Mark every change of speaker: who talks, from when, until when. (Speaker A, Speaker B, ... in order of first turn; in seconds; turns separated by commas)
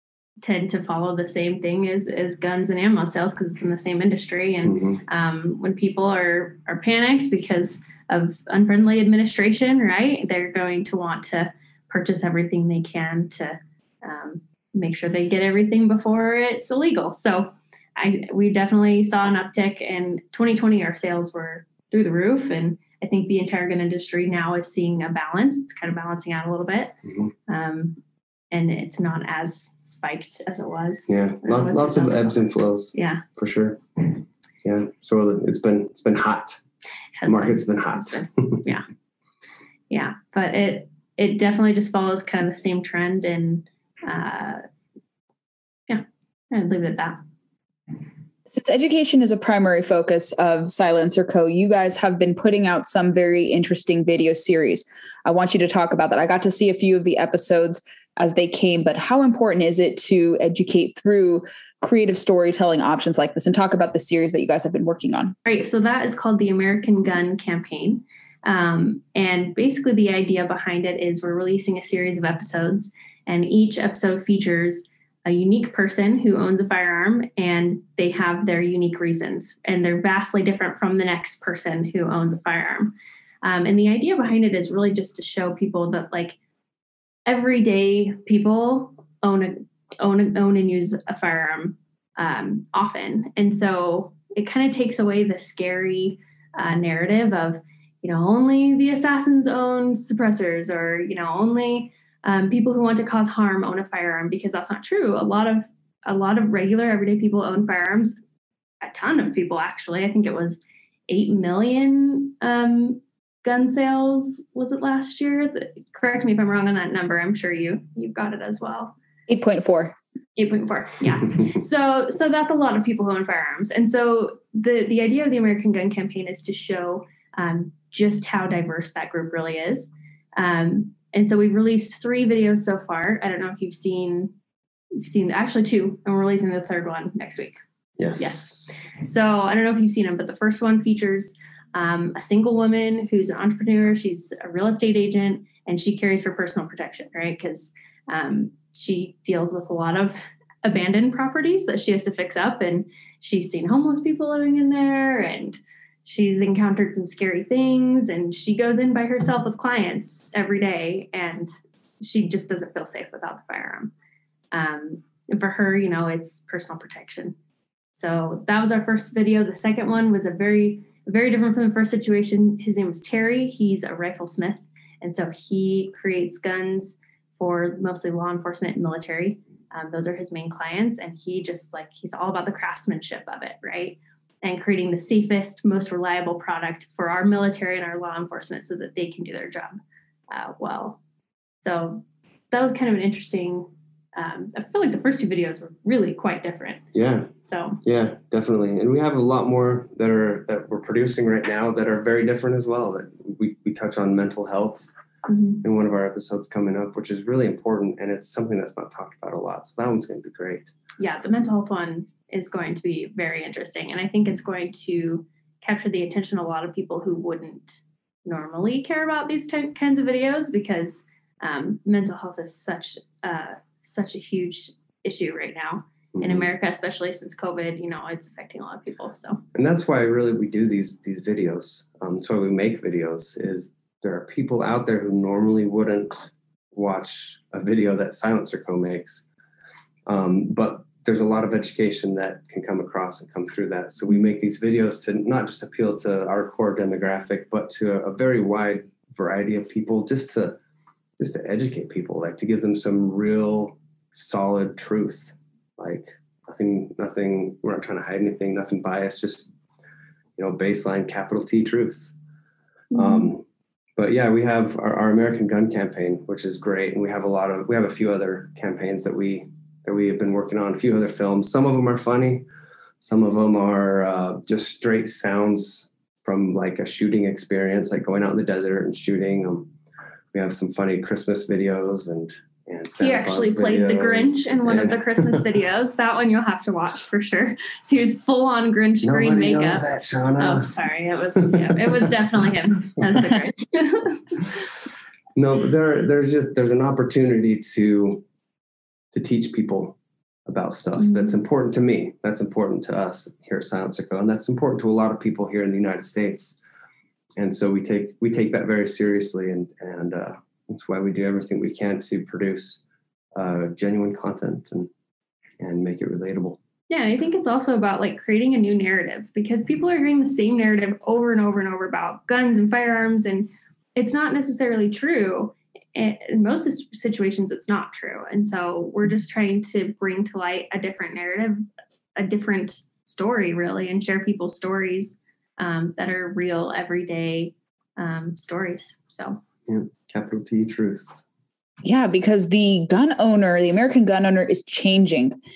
Speaker A: 0.4-27.0, Speaker B: 4.7-5.0, Speaker A: 27.5-28.0, Speaker A: 28.5-33.2, Speaker B: 31.1-36.6, Speaker A: 37.2-38.9, Speaker B: 37.3-38.6, Speaker A: 39.9-44.6, Speaker A: 45.9-47.2, Speaker C: 48.5-65.3, Speaker A: 65.5-86.4, Speaker A: 87.3-108.2, Speaker A: 108.8-119.0, Speaker C: 119.3-120.0, Speaker A: 120.4-134.3, Speaker A: 134.9-137.6, Speaker B: 138.0-138.7, Speaker A: 138.2-163.9, Speaker A: 164.5-167.4, Speaker A: 168.0-189.8, Speaker A: 190.3-191.0, Speaker A: 191.6-196.8, Speaker B: 196.9-197.3, Speaker A: 197.4-197.8, Speaker B: 197.8-204.9, Speaker A: 205.3-205.6, Speaker B: 205.6-210.7, Speaker A: 211.0-229.4, Speaker B: 226.2-226.5, Speaker B: 229.5-239.2, Speaker B: 240.1-250.6, Speaker B: 251.2-259.5, Speaker B: 260.4-262.1, Speaker B: 262.9-263.4, Speaker A: 262.9-263.3, Speaker B: 264.0-272.5, Speaker B: 273.0-279.7, Speaker B: 280.3-285.5, Speaker A: 283.0-294.6, Speaker B: 289.0-290.7, Speaker B: 291.3-293.2, Speaker B: 295.4-298.2, Speaker B: 299.1-306.6, Speaker A: 301.0-301.4, Speaker B: 307.4-312.8, Speaker B: 313.4-314.9, Speaker B: 315.6-316.6, Speaker A: 316.9-331.6, Speaker A: 332.2-339.4, Speaker B: 339.7-341.2, Speaker C: 341.8-345.4